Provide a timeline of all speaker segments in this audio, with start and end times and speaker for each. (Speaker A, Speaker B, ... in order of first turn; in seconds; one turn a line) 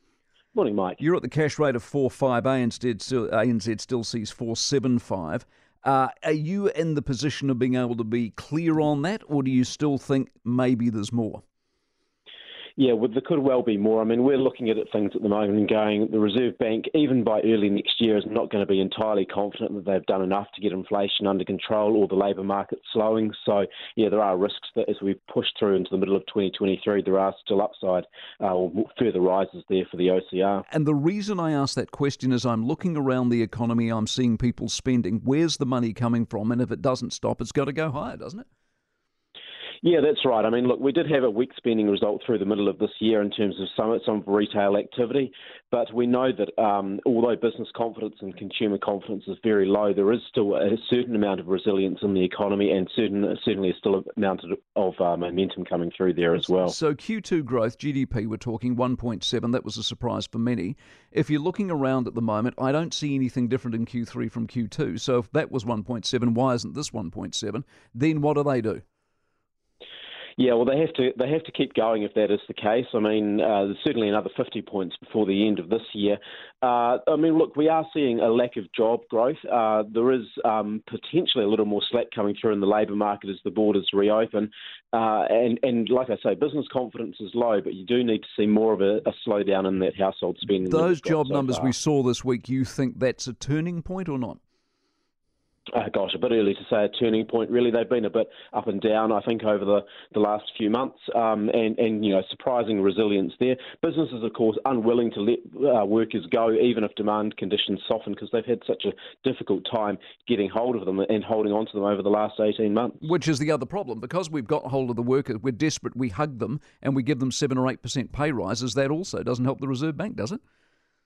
Speaker A: 0.5-1.0
Speaker B: 1.0-11.4
Speaker A: 12.8-30.6
Speaker B: 30.7-38.5
Speaker A: 39.8-56.8
Speaker B: 56.4-68.8
Speaker A: 70.4-91.7
Speaker B: 90.7-94.4
Speaker A: 95.7-113.0
Speaker B: 113.0-120.4